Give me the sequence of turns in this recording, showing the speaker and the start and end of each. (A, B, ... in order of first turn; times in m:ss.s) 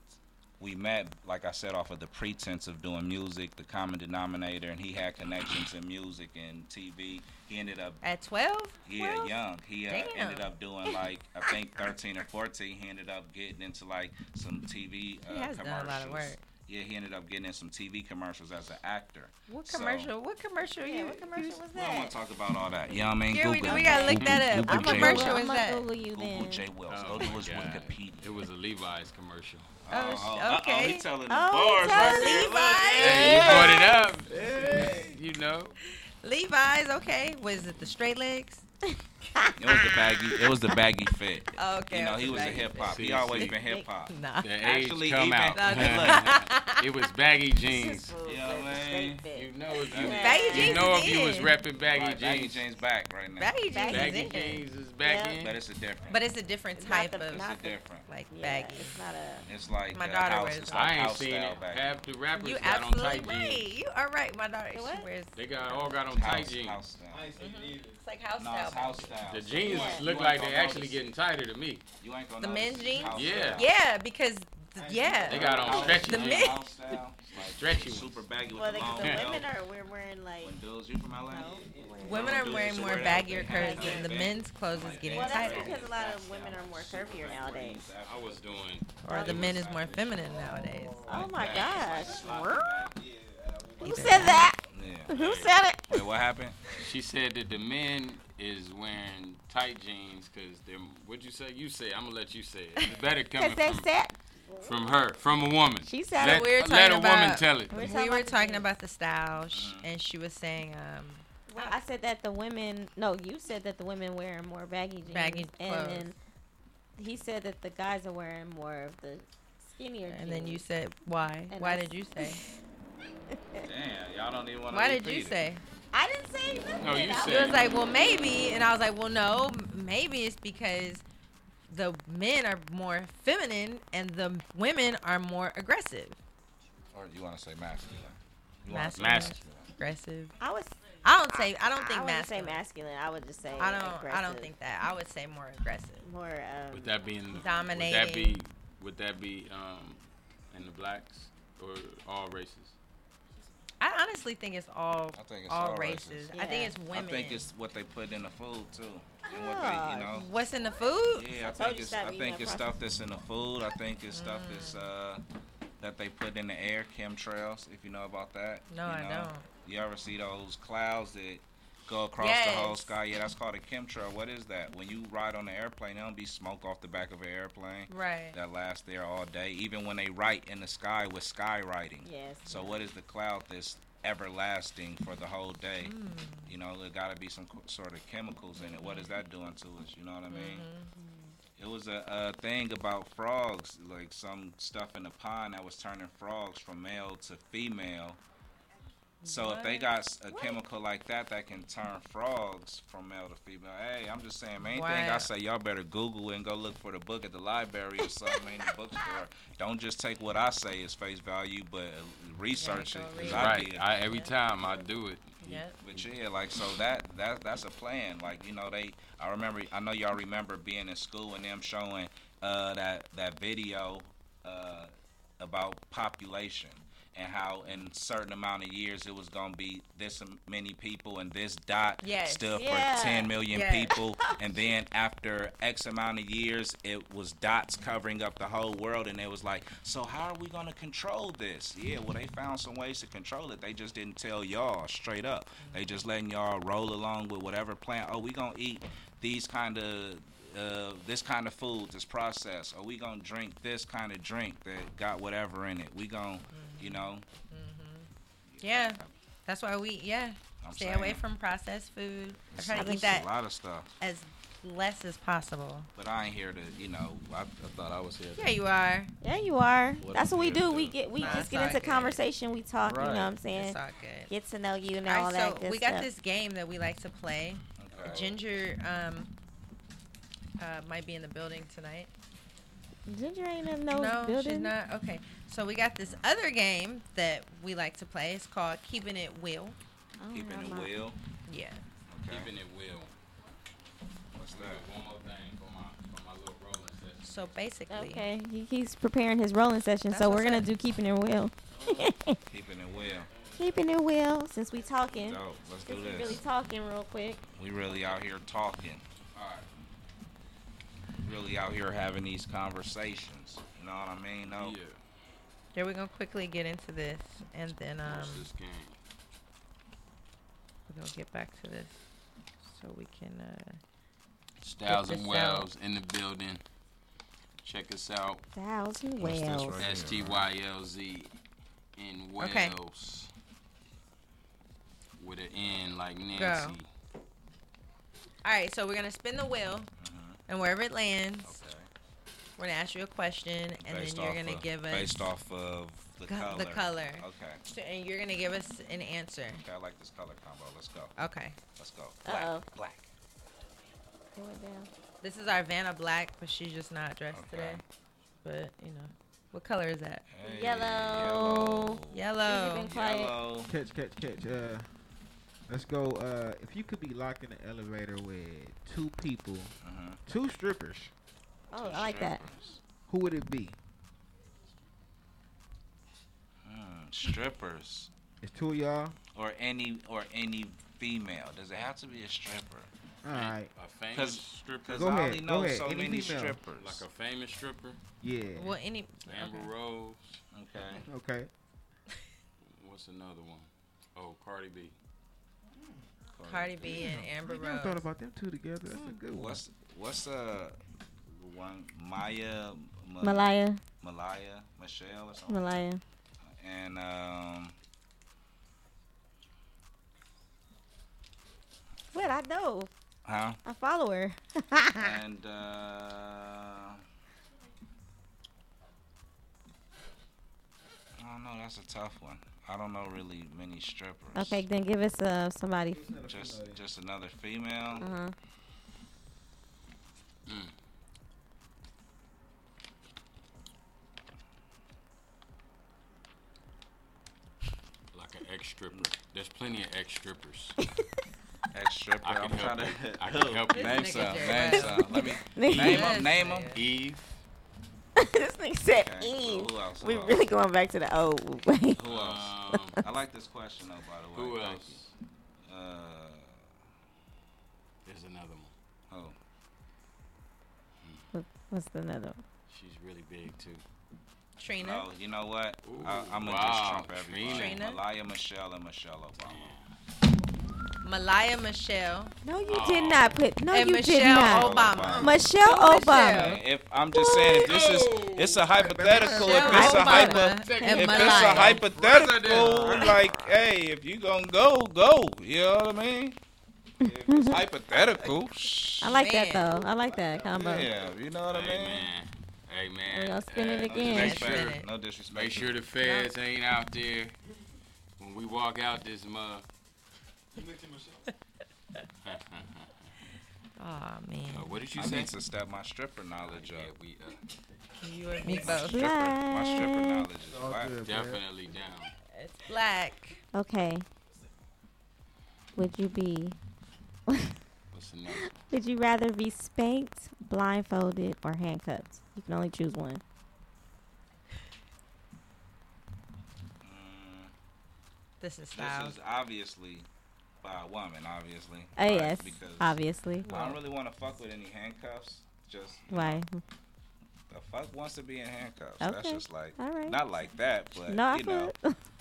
0:00.6-0:08.0 A
0:08.0-0:08.8 B
0:08.8-0:20.1 A
0:09.0-0:09.3 C
0:09.9-0:10.5 B
0:10.9-0:11.5 C
0:15.3-0:16.4 B
0:19.5-0:21.6 B
0:20.8-0:22.2 C
0:21.7-0:25.4 A
0:22.8-0:26.6 C
0:23.3-0:25.9 B
0:24.1-0:24.5 D
0:26.1-0:28.4 A
0:26.9-0:29.7 D
0:29.8-0:35.1 A
0:29.9-0:31.1 B
0:31.3-0:33.9 C
0:31.8-0:34.0 B
0:33.0-0:35.7 D
0:35.9-0:38.6 B
0:38.8-0:40.2 C
0:39.6-0:46.4 A
0:41.5-0:43.4 B
0:42.8-0:43.5 D
0:43.3-0:43.9 C
0:44.1-0:44.5 B
0:44.4-0:48.2 D
0:45.5-0:46.8 B
0:47.6-0:51.1 C
0:48.2-0:49.2 A
0:49.3-0:52.7 D
0:49.9-0:50.8 A
0:50.0-0:51.5 B
0:51.8-0:53.6 A
0:53.4-0:54.6 B
0:53.7-0:55.4 C
0:53.9-0:55.6 D
0:55.4-0:56.2 A
0:56.1-0:57.5 B
0:56.8-0:59.5 C
0:57.2-0:58.1 A
0:58.1-0:59.0 B
0:59.4-1:02.1 A
0:59.9-1:00.8 B
1:00.7-1:03.7 D
1:02.3-1:06.0 B
1:04.7-1:05.1 C
1:05.3-1:06.8 D
1:06.1-1:07.4 A
1:07.1-1:08.0 E
1:07.4-1:09.2 B
1:08.4-1:11.1 A
1:09.3-1:11.8 D
1:09.6-1:10.1 C
1:12.0-1:13.7 A
1:12.4-1:16.7 B
1:13.0-1:13.6 D
1:14.8-1:15.8 E
1:15.2-1:19.5 A
1:15.3-1:16.6 D
1:17.2-1:18.2 D
1:18.5-1:20.6 C
1:19.0-1:19.4 D
1:20.4-1:33.0 A
1:21.2-1:22.7 C
1:22.0-1:25.8 B
1:23.5-1:24.2 C
1:25.0-1:27.9 C
1:25.5-1:25.8 D
1:28.0-1:29.7 D
1:29.0-1:31.1 B
1:29.1-1:29.4 C
1:30.3-1:31.3 E
1:31.0-1:32.9 C
1:33.0-1:34.2 E
1:33.8-1:36.1 C
1:33.8-1:34.5 B
1:34.7-1:35.1 A
1:35.1-1:35.5 D
1:35.9-1:36.8 A
1:36.7-1:43.9 D
1:43.3-1:44.8 C
1:44.6-1:47.9 D
1:45.8-1:46.5 C
1:46.2-1:51.8 B
1:47.7-1:48.7 C
1:49.5-1:49.9 A
1:51.5-1:56.2 C
1:55.1-1:56.1 B
1:57.0-2:00.6 C
2:00.0-2:02.4 B
2:01.5-2:02.5 C
2:03.3-2:03.6 C
2:03.6-2:05.4 A
2:04.7-2:05.6 B
2:05.9-2:07.8 C
2:06.8-2:07.7 D
2:07.2-2:11.0 B
2:11.7-2:16.2 B
2:16.9-2:19.7 A
2:18.7-2:20.3 B
2:19.0-2:19.4 D
2:20.4-2:24.5 C
2:21.0-2:22.6 B
2:23.6-2:26.0 B
2:26.0-2:26.9 C
2:26.7-2:32.8 D
2:27.3-2:28.4 B
2:33.8-2:37.5 B
2:35.1-2:36.3 A
2:36.3-2:36.8 C
2:36.9-2:40.3 A
2:39.2-2:40.3 C
2:40.1-2:41.3 B
2:41.1-2:45.2 A
2:41.4-2:42.8 C
2:44.1-2:44.8 B
2:45.8-3:05.9 A
2:48.7-2:49.5 B
2:52.2-2:53.0 B
2:57.9-2:58.4 B
3:02.0-3:02.8 C
3:05.8-3:06.5 B
3:06.4-3:10.7 A
3:08.8-3:09.0 B
3:10.3-3:10.9 B
3:10.9-3:11.4 C
3:11.6-3:18.2 A
3:19.2-3:20.6 B
3:19.2-3:33.9 A
3:24.6-3:25.3 B
3:32.5-3:34.8 B
3:33.2-3:36.0 D
3:35.4-3:35.8 B
3:35.8-4:17.2 A
3:52.0-3:52.6 B
3:52.5-3:53.3 C
3:53.5-3:53.9 B
3:54.2-3:54.5 C
4:05.6-4:05.9 B
4:16.5-4:18.1 B
4:18.5-4:19.1 A
4:18.6-4:23.3 B
4:20.6-4:21.2 A
4:22.5-4:23.9 A
4:22.7-4:23.2 C
4:24.0-4:25.9 B
4:26.0-4:28.5 A
4:28.4-4:29.1 B
4:29.2-4:33.8 C
4:30.0-4:31.8 A
4:31.2-4:32.2 B
4:32.8-4:33.3 A
4:33.5-4:34.3 B
4:34.3-4:36.1 C
4:35.0-4:39.3 B
4:37.8-4:38.4 A
4:40.6-4:42.1 B
4:43.0-4:44.7 C
4:43.9-4:49.8 B
4:50.2-4:50.9 C
4:50.3-4:51.2 A
4:51.5-4:51.8 B
4:52.1-4:52.5 A
4:52.3-4:53.1 D
4:54.3-4:54.8 A
4:54.5-4:57.4 D
4:57.2-4:58.2 B
4:57.9-5:02.4 C
5:00.1-5:00.7 B
5:02.5-5:03.3 A
5:03.6-5:07.4 C
5:05.2-5:06.4 A
5:07.6-5:09.0 A
5:07.9-5:08.2 D
5:09.3-5:09.7 D
5:11.2-5:14.8 A
5:14.4-5:15.0 D
5:15.7-5:18.5 B
5:18.0-5:19.0 D
5:20.9-5:22.0 B
5:22.6-5:23.8 B
5:24.6-5:26.6 D
5:24.8-5:25.7 B
5:27.6-5:28.4 D
5:28.5-5:29.8 C
5:29.2-5:30.5 A
5:29.8-5:31.3 D
5:32.0-5:33.3 D
5:32.4-5:32.7 B
5:35.2-5:36.9 D
5:35.6-5:35.9 A
5:36.3-5:36.8 B
5:38.4-5:39.9 B
5:40.0-5:40.4 A
5:40.5-5:41.6 B
5:41.4-5:41.9 A
5:42.6-5:45.3 B
5:43.8-5:47.6 A
5:46.3-5:49.6 B
5:49.6-5:51.1 A
5:51.2-5:51.6 B
5:51.8-5:53.1 A
5:52.2-5:52.6 C
5:54.3-5:54.9 C
5:55.2-5:57.8 B
5:57.3-5:57.8 A
5:58.4-6:00.2 B
6:00.3-6:02.2 A
6:00.4-6:03.4 C
6:02.1-6:02.9 B
6:02.8-6:03.7 A
6:03.6-6:04.9 E
6:05.7-6:09.7 E
6:09.8-6:10.2 A
6:10.2-6:11.1 E
6:11.7-6:12.4 C
6:11.7-6:12.8 A
6:13.1-6:13.8 E
6:16.6-6:18.1 A
6:18.4-6:19.2 E
6:19.3-6:22.9 A
6:23.2-6:23.7 E
6:23.3-6:25.1 D
6:24.1-6:27.0 A
6:24.9-6:26.6 E
6:26.7-6:28.0 D
6:28.2-6:28.8 E
6:28.5-6:29.7 B
6:29.2-6:30.4 D
6:30.5-6:31.0 A
6:31.0-6:31.5 E
6:32.6-6:35.0 D
6:36.4-6:37.2 A
6:36.4-6:38.0 B
6:36.8-6:39.6 E
6:39.3-6:45.8 A
6:43.2-6:43.8 C
6:45.5-6:46.0 C
6:46.4-6:47.7 A
6:52.1-6:52.9 C
6:53.2-6:53.6 A
6:53.6-6:55.2 C
6:55.0-6:57.0 A
7:01.2-7:04.6 A
7:04.3-7:06.1 C
7:05.9-7:06.8 E
7:06.3-7:08.1 A
7:08.0-7:08.3 C
7:10.5-7:10.7 D
7:18.1-7:20.8 D
7:21.7-7:26.8 A
7:22.2-7:26.1 D
7:23.7-7:25.0 B
7:25.1-7:26.2 C
7:25.8-7:26.8 B
7:26.7-7:27.4 D
7:28.2-7:32.0 C
7:28.9-7:30.5 A
7:31.9-7:35.0 A
7:32.1-7:33.0 D
7:34.3-7:35.1 D
7:35.6-7:36.6 A
7:38.0-7:38.7 D
7:39.1-7:39.4 A
7:41.3-7:42.4 C
7:42.7-7:43.8 D
7:44.6-7:45.1 B
7:44.8-7:49.7 A
7:45.8-7:47.8 D
7:47.5-7:48.0 B
7:49.4-7:49.9 D
7:51.0-7:52.3 B
7:52.4-7:56.6 C
7:52.7-7:53.4 D
7:53.7-7:56.6 B
7:54.4-7:55.5 A
7:56.3-8:06.4 A
7:57.1-7:57.7 C
7:57.4-7:58.6 D
7:58.7-8:00.0 E
7:59.3-8:01.8 B
7:59.6-8:03.1 D
7:59.6-8:01.0 C
8:02.5-8:03.1 C
8:07.0-8:07.6 C
8:07.0-8:09.2 A
8:09.0-8:10.9 C
8:09.0-8:09.8 B
8:10.2-8:10.6 E
8:10.5-8:12.1 A
8:11.5-8:14.8 D
8:13.1-8:14.5 C
8:13.8-8:15.8 A
8:14.0-8:14.8 B
8:15.3-8:17.4 D
8:18.2-8:19.6 D
8:20.6-8:21.2 E
8:22.2-8:23.1 D
8:23.8-8:24.7 B
8:24.5-8:25.3 D
8:24.9-8:26.9 A
8:26.4-8:27.4 D
8:28.0-8:29.0 B
8:28.4-8:30.3 C
8:28.5-8:31.0 A
8:30.4-8:31.4 E
8:31.0-8:32.1 D
8:32.3-8:33.4 B
8:33.5-8:34.0 C
8:35.7-8:36.6 C
8:37.3-8:37.6 C
8:37.9-8:38.6 D
8:38.3-8:43.2 C
8:46.8-8:47.5 A
8:48.4-8:49.2 B
8:48.7-8:50.1 A
8:50.6-8:56.4 A
8:52.0-8:53.5 C
8:53.4-8:53.8 B
8:56.1-8:56.6 C
8:57.5-9:01.7 A
8:59.0-9:00.2 C
9:01.0-9:02.0 C